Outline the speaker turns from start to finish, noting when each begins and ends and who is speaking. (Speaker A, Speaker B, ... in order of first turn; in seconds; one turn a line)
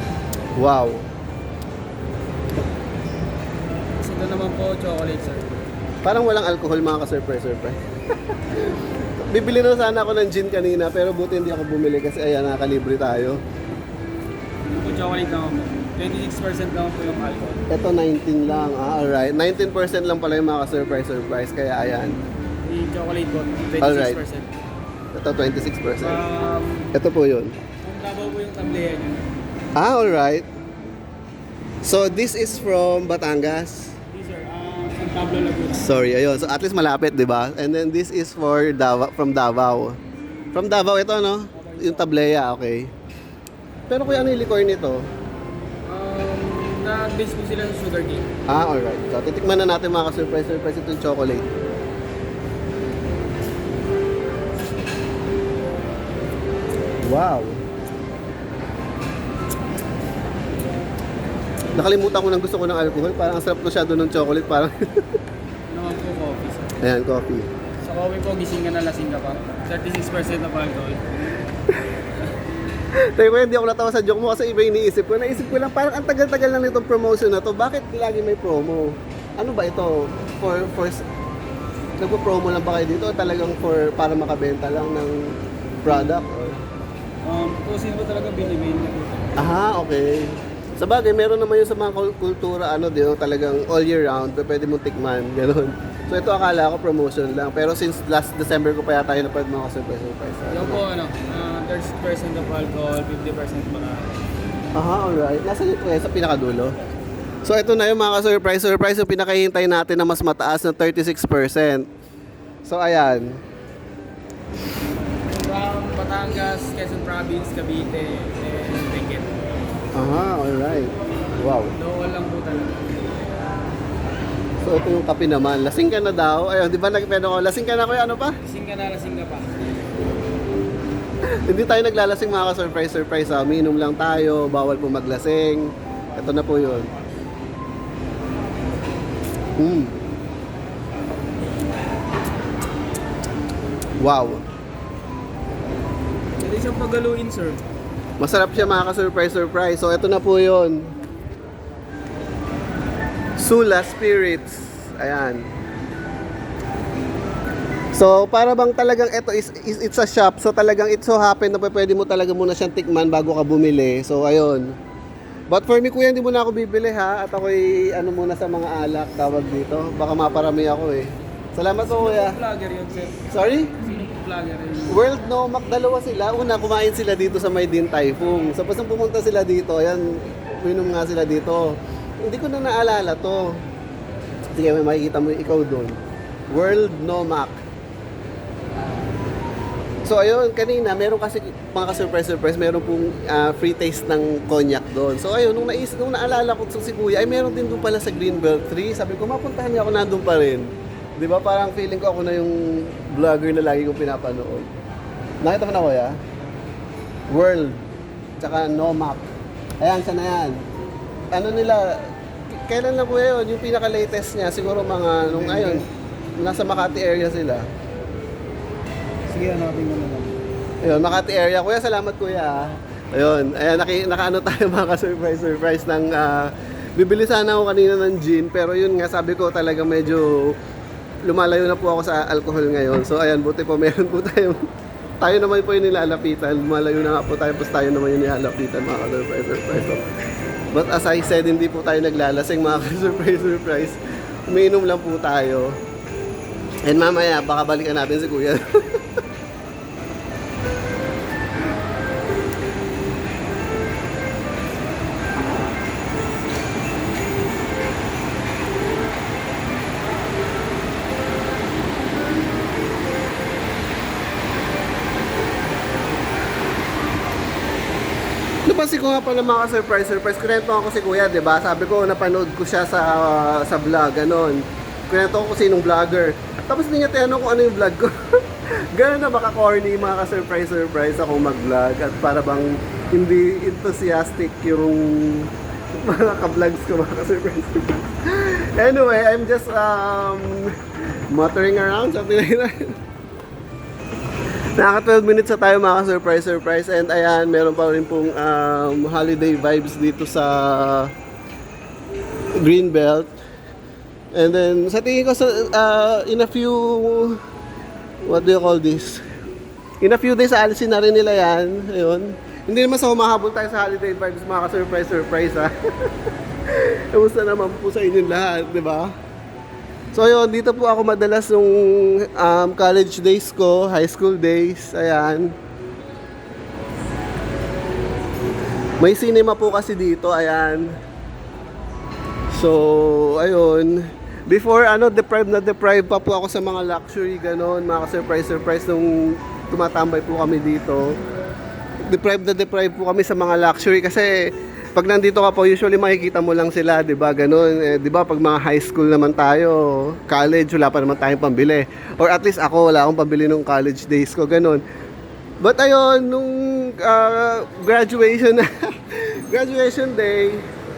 Speaker A: 0.6-1.0
Speaker B: 4.0-5.6
Speaker A: 6.0-7.8
Speaker A: 9.2-13.4
Speaker B: 14.7-17.6
Speaker A: 17.7-22.1
Speaker B: 22.6-24.5
Speaker A: 23.8-24.2
Speaker A: 25.1-26.2
Speaker B: 26.0-26.9
Speaker A: 27.0-27.5
Speaker B: 27.8-29.2
Speaker A: 29.8-30.4
Speaker A: 31.8-33.9
Speaker B: 34.1-36.0
Speaker A: 35.9-39.9
Speaker A: 40.5-42.9
Speaker B: 41.5-42.1
Speaker A: 43.9-45.0
Speaker B: 45.8-48.3
Speaker A: 48.5-51.5
Speaker A: 57.0-57.6
Speaker A: 61.8-65.0
Speaker B: 65.7-66.8
Speaker A: 66.8-67.5
Speaker B: 67.8-71.2
Speaker A: 72.9-81.0
Speaker A: 82.0-85.3
Speaker A: 85.8-86.6
Speaker B: 85.9-86.2
Speaker B: 87.2-89.4
Speaker A: 89.4-100.8
Speaker B: 100.5-104.2
Speaker A: 104.8-106.7
Speaker A: 107.4-111.8
Speaker A: 112.7-113.3
Speaker B: 115.3-119.3
Speaker A: 120.0-121.8
Speaker B: 121.7-123.0
Speaker A: 124.6-128.3
Speaker B: 128.4-129.7
Speaker A: 131.4-136.9
Speaker A: 139.6-140.0
Speaker A: 144.0-144.4
Speaker B: 146.4-147.6
Speaker A: 148.2-150.9
Speaker A: 153.4-155.4
Speaker A: 157.9-164.7
Speaker A: 165.5-172.4
Speaker B: 171.8-175.1
Speaker A: 173.3-173.7
Speaker A: 174.9-183.6
Speaker A: 184.5-185.9
Speaker A: 186.5-187.5
Speaker A: 190.0-204.7
Speaker A: 205.4-206.1
Speaker A: 207.3-207.8
Speaker A: 208.4-209.2
Speaker A: 209.8-210.6
Speaker A: 211.3-215.8
Speaker B: 215.3-215.8
Speaker A: 216.4-217.6
Speaker B: 219.3-220.4
Speaker A: 220.8-230.6
Speaker A: 231.2-234.6
Speaker A: 235.2-240.1
Speaker A: 240.7-245.8
Speaker A: 246.8-249.0
Speaker A: 268.6-278.1
Speaker A: 278.7-290.8
Speaker A: 291.3-292.9
Speaker A: 294.8-301.1
Speaker A: 302.5-303.4
Speaker A: 304.3-307.4
Speaker A: 308.2-309.2
Speaker A: 310.0-316.1
Speaker A: 316.6-319.1
Speaker A: 320.1-325.5
Speaker A: 329.0-330.9
Speaker A: 332.5-341.1
Speaker A: 342.1-354.8
Speaker A: 355.6-360.6